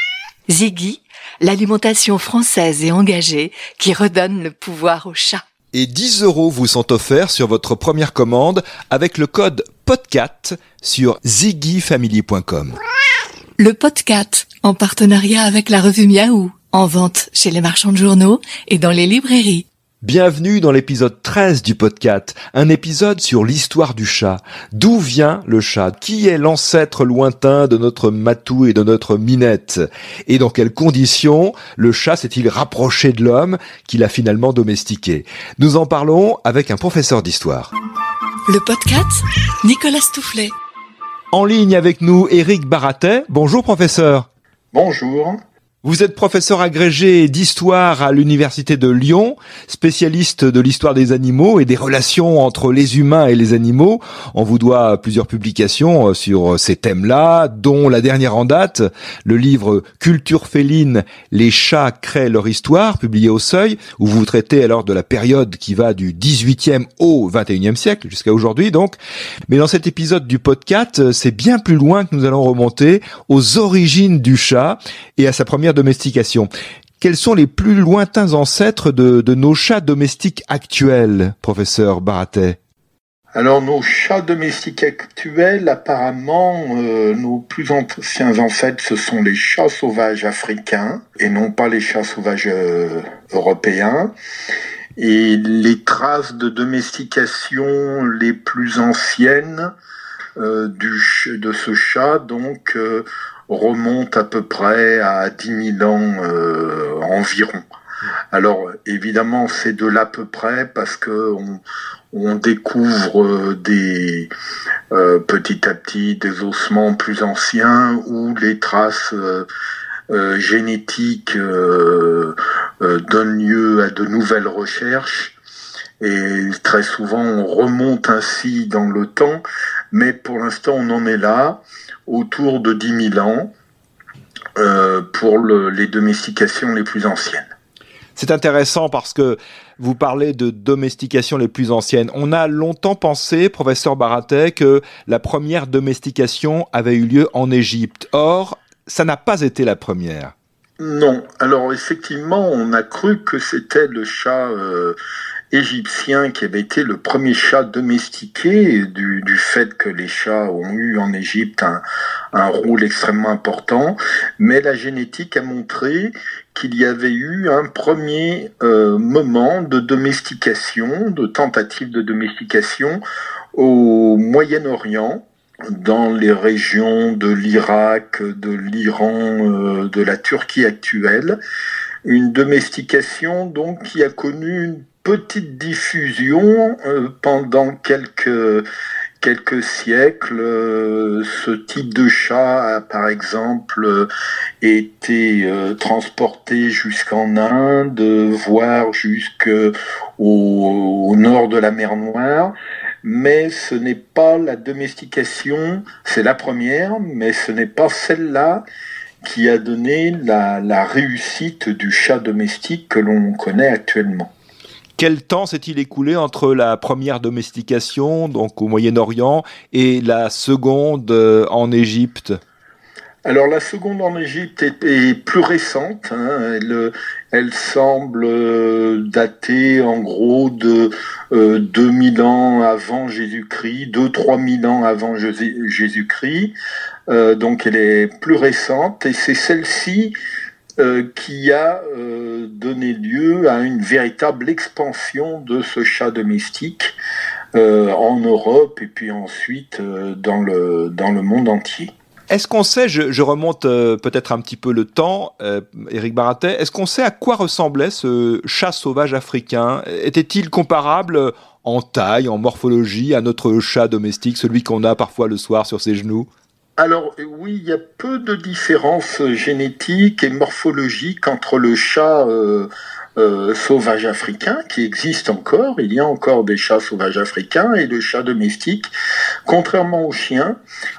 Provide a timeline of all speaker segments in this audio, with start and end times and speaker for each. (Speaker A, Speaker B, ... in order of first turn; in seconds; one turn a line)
Speaker A: 0.5-5.4
Speaker B: 5.7-12.8
Speaker A: 13.6-19.6
Speaker B: 20.0-37.7
Speaker A: 38.5-40.5
Speaker B: 41.3-44.3
Speaker C: 44.7-45.4
Speaker B: 45.8-69.0
Speaker B: 69.5-76.5
Speaker B: 77.0-82.6
Speaker C: 83.3-94.1
Speaker C: 95.0-99.7
Speaker C: 100.4-107.6
Speaker C: 108.3-114.3
Speaker C: 114.9-119.5
Speaker C: 120.1-125.3
Speaker C: 126.0-133.5
Speaker C: 134.6-137.5
Speaker B: 138.2-150.3
Speaker C: 150.8-154.9
Speaker C: 155.5-173.0
Speaker C: 173.5-181.4
Speaker C: 182.0-188.6
Speaker C: 189.2-194.1
Speaker C: 194.6-208.6
Speaker C: 209.2-214.3
Speaker B: 215.0-222.3
Speaker C: 223.2-236.5
Speaker C: 237.1-240.1
Speaker C: 240.8-246.9
Speaker C: 247.5-251.9
Speaker B: 252.3-266.3
Speaker C: 266.8-278.9
Speaker C: 279.4-280.6